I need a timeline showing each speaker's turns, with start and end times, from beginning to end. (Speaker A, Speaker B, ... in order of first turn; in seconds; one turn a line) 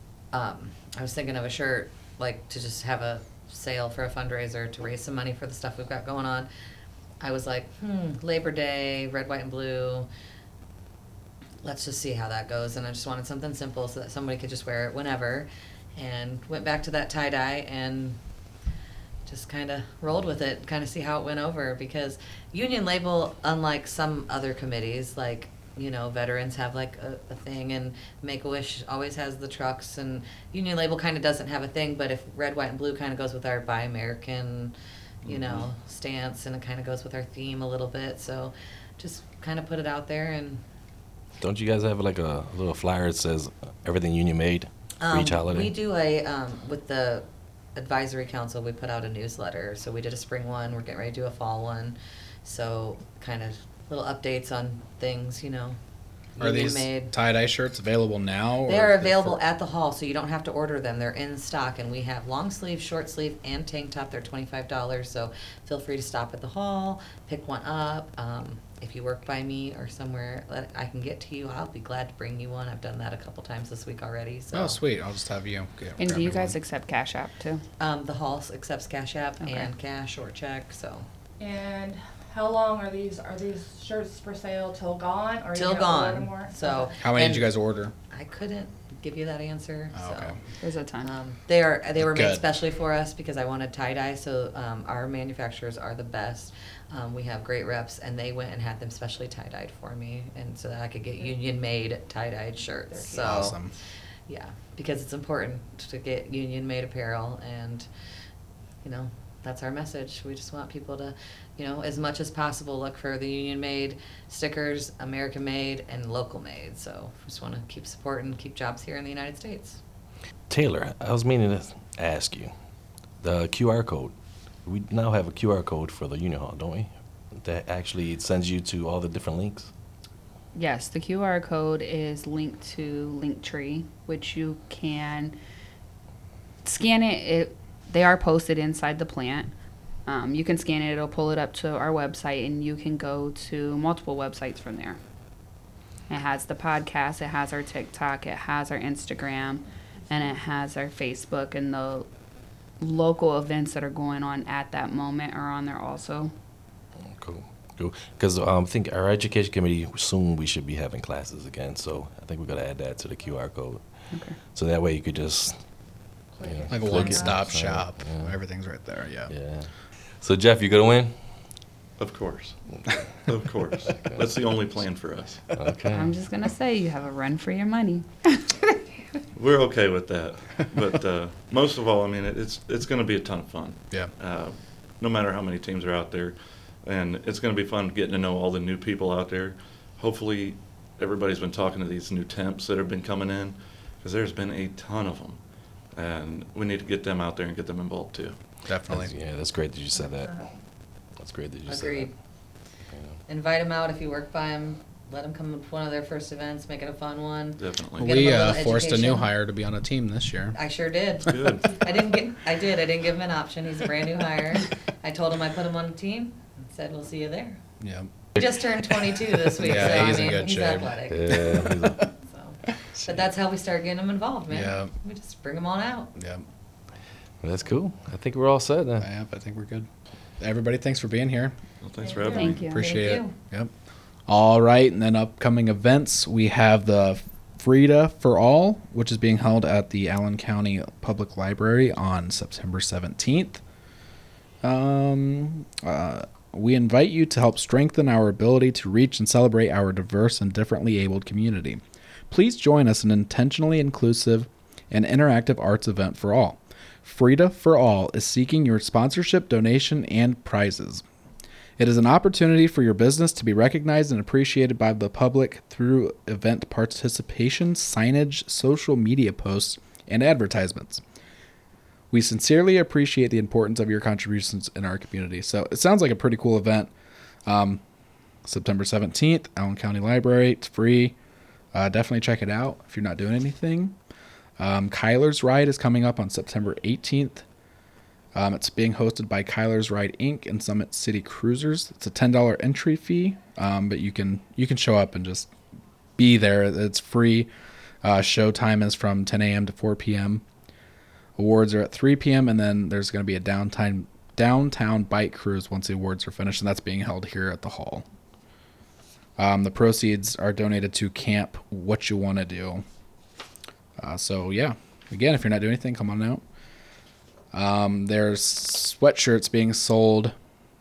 Speaker A: 0.3-6.5
Speaker A: 7.2-10.1
Speaker A: 11.6-18.2
Speaker A: 19.3-40.6
Speaker B: 35.2-35.7
Speaker C: 41.4-45.7
Speaker A: 45.0-55.8
Speaker A: 56.4-57.1
Speaker D: 56.4-59.4
Speaker A: 58.7-74.8
Speaker D: 74.5-76.6
Speaker E: 76.0-77.6
Speaker A: 77.8-81.1
Speaker E: 79.4-79.7
Speaker F: 81.4-87.0
Speaker A: 85.5-87.5
Speaker D: 87.0-87.9
Speaker A: 88.1-90.3
Speaker D: 90.0-90.4
Speaker E: 90.6-91.2
Speaker A: 91.0-103.6
Speaker D: 92.0-92.4
Speaker F: 102.9-103.3
Speaker D: 103.2-103.7
Speaker A: 104.3-107.9
Speaker A: 108.8-119.8
Speaker C: 120.5-122.5
Speaker C: 123.2-124.1
Speaker C: 124.7-126.9
Speaker C: 127.4-129.7
Speaker E: 130.5-135.4
Speaker E: 136.6-139.5
Speaker E: 140.1-145.0
Speaker E: 146.1-152.1
Speaker E: 152.8-156.3
Speaker C: 157.1-163.8
Speaker E: 164.1-164.4
Speaker C: 164.5-165.6
Speaker F: 166.4-167.3
Speaker C: 166.4-168.3
Speaker D: 166.7-169.3
Speaker C: 169.3-169.7
Speaker C: 170.2-171.2
Speaker B: 172.0-172.6
Speaker B: 173.3-175.5
Speaker C: 174.0-174.3
Speaker C: 175.5-176.1
Speaker E: 175.9-178.8
Speaker B: 179.3-195.4
Speaker B: 195.9-198.4
Speaker D: 198.7-199.1
Speaker C: 198.9-200.4
Speaker F: 200.0-200.5
Speaker C: 201.2-202.1
Speaker A: 201.7-202.1
Speaker A: 203.3-209.3
Speaker B: 207.6-208.2
Speaker D: 208.0-210.6
Speaker A: 210.6-217.6
Speaker B: 211.3-211.7
Speaker D: 217.8-218.1
Speaker A: 218.4-226.1
Speaker D: 219.6-220.9
Speaker C: 221.1-222.1
Speaker D: 224.5-224.9
Speaker D: 226.2-226.4
Speaker C: 227.4-229.1
Speaker D: 229.0-229.9
Speaker D: 230.4-231.6
Speaker B: 231.8-232.6
Speaker F: 232.0-232.6
Speaker E: 232.4-232.8
Speaker A: 232.5-233.3
Speaker D: 232.6-233.7
Speaker D: 234.3-243.6
Speaker D: 244.6-261.0
Speaker D: 261.8-271.0
Speaker D: 272.1-276.9
Speaker D: 277.5-277.8
Speaker D: 278.4-281.2
Speaker D: 281.7-284.0
Speaker D: 284.6-287.4
Speaker D: 288.4-295.5
Speaker D: 296.2-297.5
Speaker D: 298.0-300.4
Speaker D: 301.4-308.1
Speaker D: 309.4-312.8
Speaker D: 314.0-316.4
Speaker D: 317.5-320.4